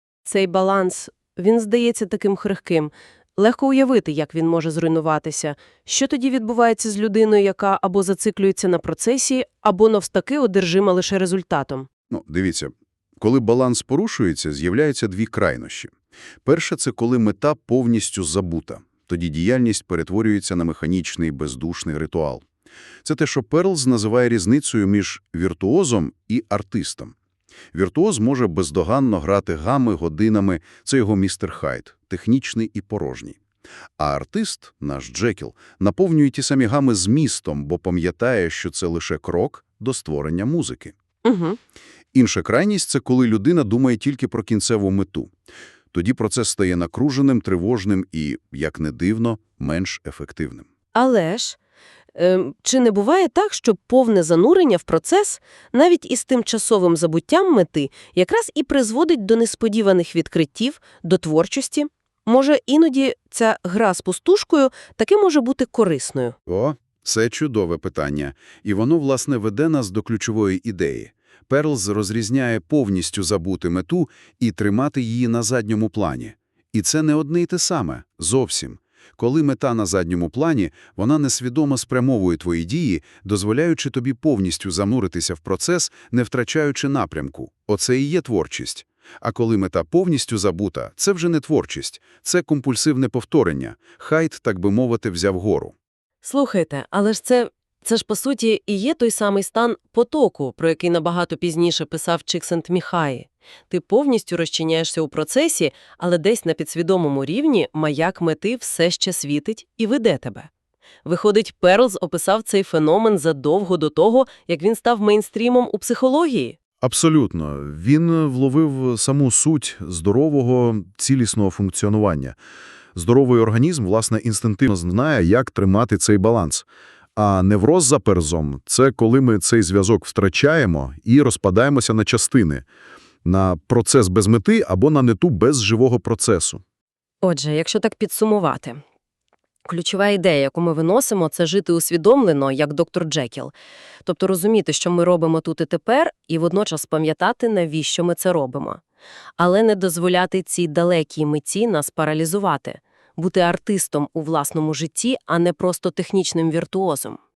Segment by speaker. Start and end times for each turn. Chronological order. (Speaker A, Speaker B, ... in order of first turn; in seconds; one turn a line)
Speaker A: 0.2-11.9
Speaker B: 12.1-15.9
Speaker B: 16.4-22.4
Speaker B: 23.0-27.1
Speaker B: 27.7-33.4
Speaker B: 34.0-40.9
Speaker A: 41.2-41.6
Speaker B: 42.1-45.3
Speaker B: 45.9-50.7
Speaker A: 51.0-51.6
Speaker A: 52.1-66.4
Speaker B: 66.5-95.7
Speaker A: 96.2-110.5
Speaker A: 111.0-116.6
Speaker B: 116.8-122.4
Speaker B: 123.0-132.7
Speaker B: 133.2-136.6
Speaker A: 137.2-138.8
Speaker A: 139.7-143.5
Speaker A: 144.1-148.8
Speaker A: 149.4-157.2